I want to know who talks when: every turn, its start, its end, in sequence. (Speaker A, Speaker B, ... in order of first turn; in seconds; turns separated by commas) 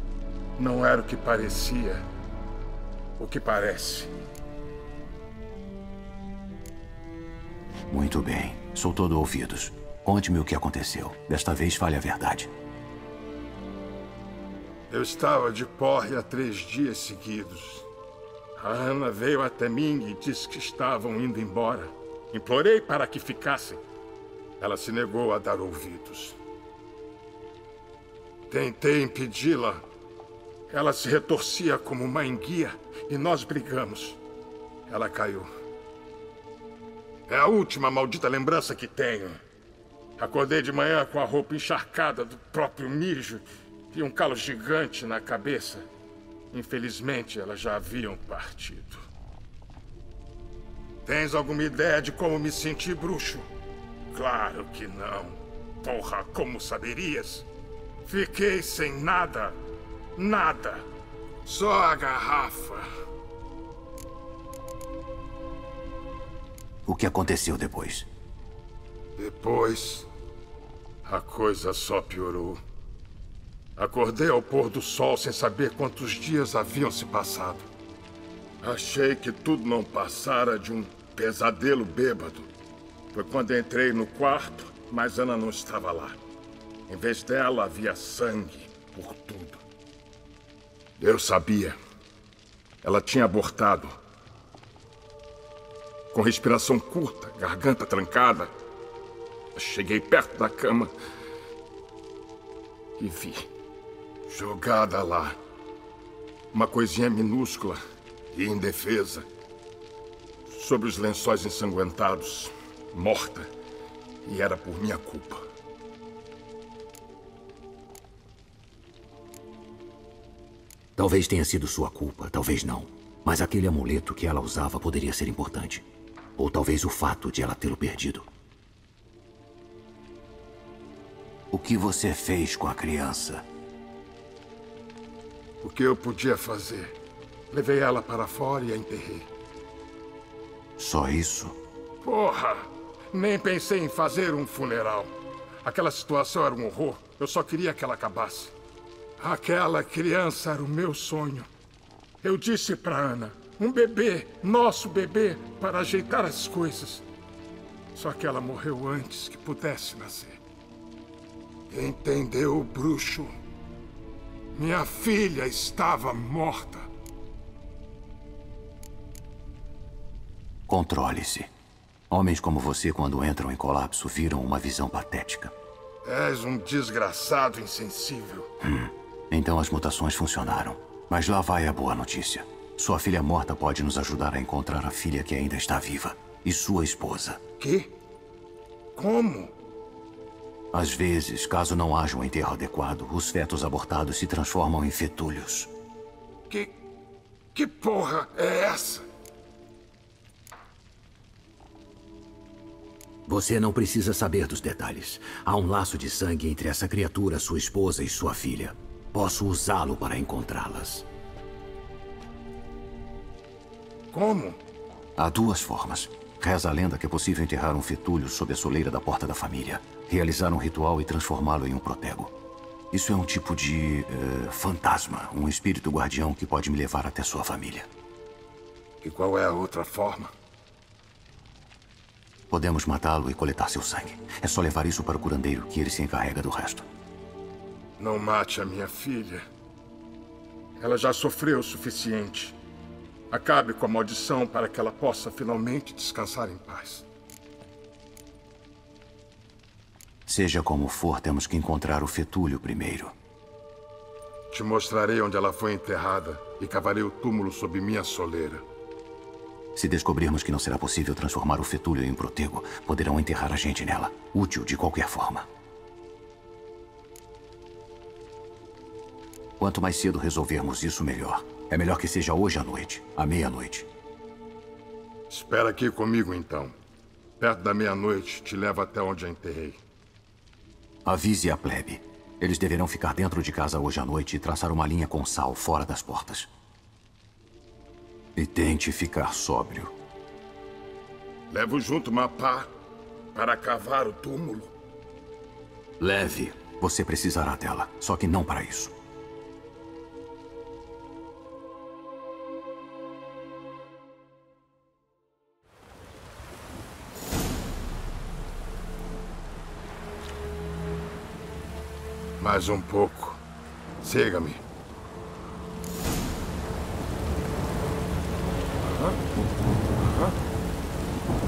Speaker A: 0.6-2.0, Speaker A: 3.2-4.1, Speaker B: 7.9-12.5, Speaker A: 14.9-17.9, Speaker A: 18.6-23.8, Speaker A: 24.6-26.4, Speaker A: 28.5-29.8, Speaker A: 30.7-34.2, Speaker A: 34.9-35.5, Speaker A: 37.3-39.4, Speaker A: 40.2-45.9, Speaker A: 46.5-49.0, Speaker A: 51.0-53.5, Speaker A: 54.1-57.5, Speaker A: 58.0-59.5, Speaker A: 60.1-60.9, Speaker A: 61.5-62.9, Speaker B: 66.8-68.1, Speaker A: 69.2-70.1, Speaker A: 71.0-72.6, Speaker A: 73.8-77.7, Speaker A: 78.6-82.5, Speaker A: 83.1-86.2, Speaker A: 86.9-89.6, Speaker A: 91.0-91.8, Speaker A: 92.8-94.0, Speaker A: 96.1-98.5, Speaker A: 99.5-100.9, Speaker A: 103.0-103.5, Speaker A: 104.3-105.3, Speaker A: 106.5-107.8, Speaker A: 108.3-109.2, Speaker A: 110.5-113.5, Speaker A: 114.2-115.4, Speaker B: 121.0-125.8, Speaker B: 126.4-128.3, Speaker B: 131.5-133.4, Speaker A: 135.6-136.9, Speaker A: 137.5-139.3, Speaker B: 140.8-141.6, Speaker A: 142.0-148.5, Speaker A: 149.2-151.5, Speaker A: 152.2-157.0, Speaker A: 157.9-160.4, Speaker A: 161.7-163.3, Speaker A: 164.5-166.9, Speaker B: 170.7-171.5, Speaker B: 172.1-175.5, Speaker A: 176.0-178.5, Speaker B: 178.6-187.4, Speaker A: 187.6-187.9, Speaker A: 188.9-189.5, Speaker B: 190.7-195.7, Speaker A: 196.5-196.7, Speaker A: 197.5-199.1, Speaker B: 203.2-211.1, Speaker A: 214.1-214.6, Speaker B: 215.2-222.3, Speaker B: 222.9-227.9, Speaker A: 229.0-230.3, Speaker B: 232.5-236.8, Speaker A: 238.0-239.4, Speaker A: 240.8-242.6, Speaker A: 243.3-247.1, Speaker B: 250.2-253.1, Speaker A: 254.5-258.6, Speaker B: 259.7-265.5, Speaker B: 269.6-273.9, Speaker A: 275.3-276.7, Speaker A: 277.4-279.8, Speaker B: 281.0-286.5, Speaker B: 288.3-289.9, Speaker A: 291.5-292.7, Speaker A: 293.3-294.7, Speaker B: 296.0-298.9, Speaker A: 312.4-313.4, Speaker A: 314.0-314.6, Speaker A: 318.8-319.2, Speaker A: 320.0-320.3